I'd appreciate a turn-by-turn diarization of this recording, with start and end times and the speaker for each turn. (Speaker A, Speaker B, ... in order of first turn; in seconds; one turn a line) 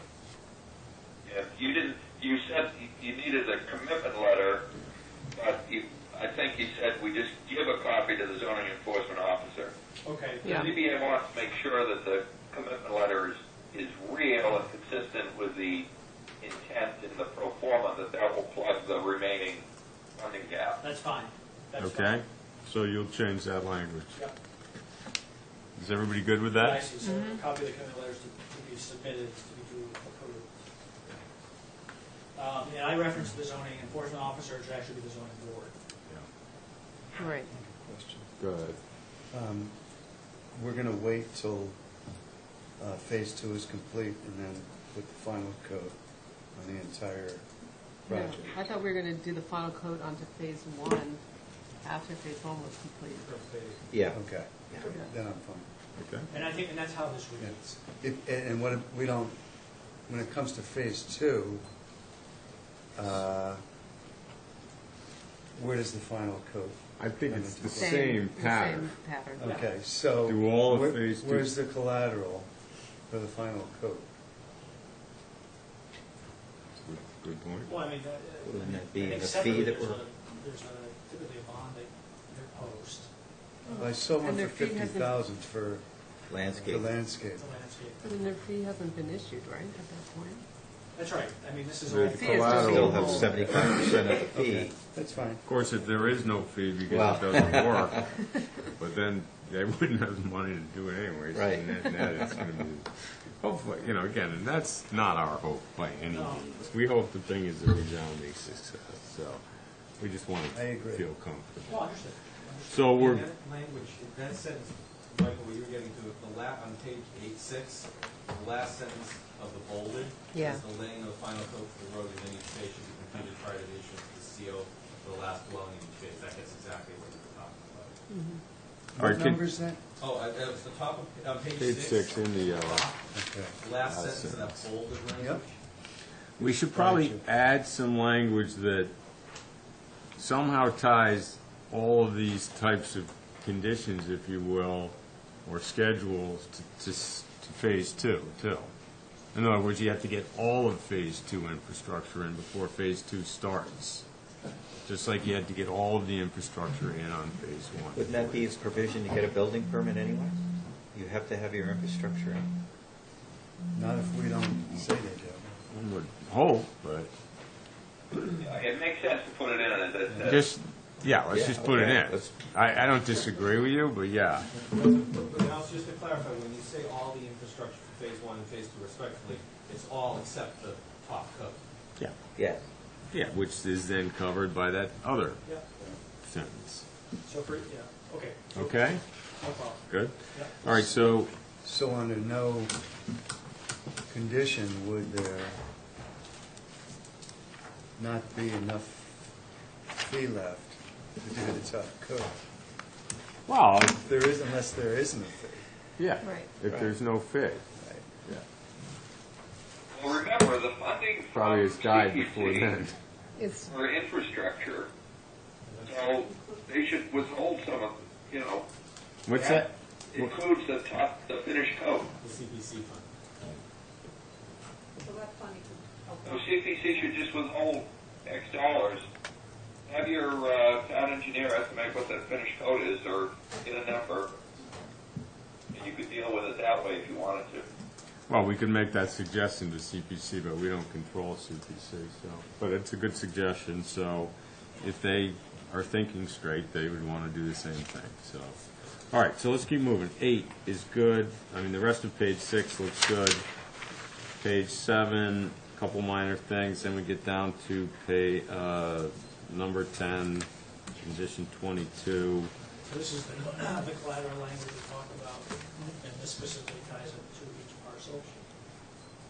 Speaker A: 1.2-4.6
Speaker A: 5.3-9.7
Speaker B: 10.0-10.7
Speaker A: 10.4-15.9
Speaker A: 16.4-19.7
Speaker A: 20.2-20.8
Speaker B: 20.8-22.2
Speaker C: 21.9-24.1
Speaker C: 25.8-27.4
Speaker B: 26.5-30.5
Speaker B: 32.4-35.8
Speaker D: 37.2-37.5
Speaker E: 37.5-38.3
Speaker C: 38.4-38.8
Speaker E: 39.3-39.8
Speaker E: 40.5-41.8
Speaker E: 42.8-46.0
Speaker E: 46.5-47.5
Speaker E: 48.0-48.5
Speaker D: 48.1-51.2
Speaker D: 51.8-53.3
Speaker B: 53.2-53.8
Speaker F: 53.9-54.8
Speaker E: 54.1-55.7
Speaker B: 56.3-57.7
Speaker E: 57.4-59.4
Speaker E: 60.0-61.6
Speaker E: 63.0-63.6
Speaker E: 65.5-68.3
Speaker C: 67.0-69.5
Speaker D: 67.6-69.4
Speaker E: 69.3-72.5
Speaker C: 70.3-71.4
Speaker E: 73.1-74.1
Speaker D: 76.8-77.7
Speaker C: 77.1-77.7
Speaker B: 77.7-83.1
Speaker F: 78.4-80.0
Speaker D: 83.7-85.1
Speaker E: 83.7-85.8
Speaker F: 86.3-86.9
Speaker E: 86.4-87.4
Speaker B: 87.3-88.3
Speaker D: 88.0-90.4
Speaker B: 90.9-93.2
Speaker C: 91.9-93.9
Speaker D: 92.2-93.3
Speaker F: 92.5-94.8
Speaker E: 94.3-95.4
Speaker C: 95.5-98.1
Speaker D: 95.6-96.0
Speaker F: 96.9-97.8
Speaker C: 98.8-109.4
Speaker F: 101.3-102.5
Speaker B: 106.1-106.6
Speaker C: 110.0-111.6
Speaker E: 110.5-111.0
Speaker B: 111.7-112.9
Speaker C: 112.7-113.2
Speaker G: 112.9-128.0
Speaker C: 120.3-120.6
Speaker E: 128.9-129.8
Speaker C: 129.0-129.3
Speaker G: 130.0-133.0
Speaker C: 131.6-132.9
Speaker E: 133.1-133.6
Speaker G: 133.5-135.6
Speaker C: 133.8-134.6
Speaker E: 135.2-135.4
Speaker C: 136.4-138.9
Speaker E: 136.7-137.2
Speaker C: 140.2-148.7
Speaker C: 149.3-154.1
Speaker C: 154.9-158.4
Speaker F: 157.9-160.4
Speaker F: 160.9-162.5
Speaker E: 163.7-165.6
Speaker C: 165.7-167.1
Speaker A: 168.4-170.5
Speaker E: 170.1-170.4
Speaker C: 170.3-174.5
Speaker F: 171.3-172.4
Speaker G: 174.6-181.6
Speaker F: 182.3-182.6
Speaker C: 183.1-185.4
Speaker B: 185.4-185.7
Speaker C: 186.2-186.8
Speaker B: 187.2-190.6
Speaker D: 188.6-188.9
Speaker C: 188.7-189.0
Speaker C: 189.9-191.3
Speaker E: 191.6-192.8
Speaker E: 194.1-195.6
Speaker E: 198.0-199.3
Speaker E: 200.0-202.4
Speaker C: 203.5-204.0
Speaker E: 203.9-205.7
Speaker C: 206.0-207.5
Speaker D: 206.2-207.6
Speaker E: 207.8-208.1
Speaker A: 209.9-212.8
Speaker C: 211.3-213.0
Speaker D: 213.4-213.7
Speaker A: 213.7-214.9
Speaker A: 215.8-218.7
Speaker H: 216.1-216.6
Speaker C: 219.3-219.7
Speaker A: 219.3-222.1
Speaker G: 222.2-223.1
Speaker H: 225.0-226.5
Speaker A: 226.2-229.0
Speaker A: 229.9-234.3
Speaker A: 235.7-237.7
Speaker C: 238.3-243.4
Speaker D: 238.7-242.5
Speaker D: 243.4-244.3
Speaker D: 244.8-247.9
Speaker C: 244.8-248.5
Speaker C: 249.1-253.4
Speaker D: 249.9-250.9
Speaker D: 251.7-252.1
Speaker D: 252.9-253.4
Speaker C: 254.4-260.5
Speaker D: 259.7-260.2
Speaker C: 261.0-262.5
Speaker D: 261.2-261.9
Speaker B: 262.8-268.4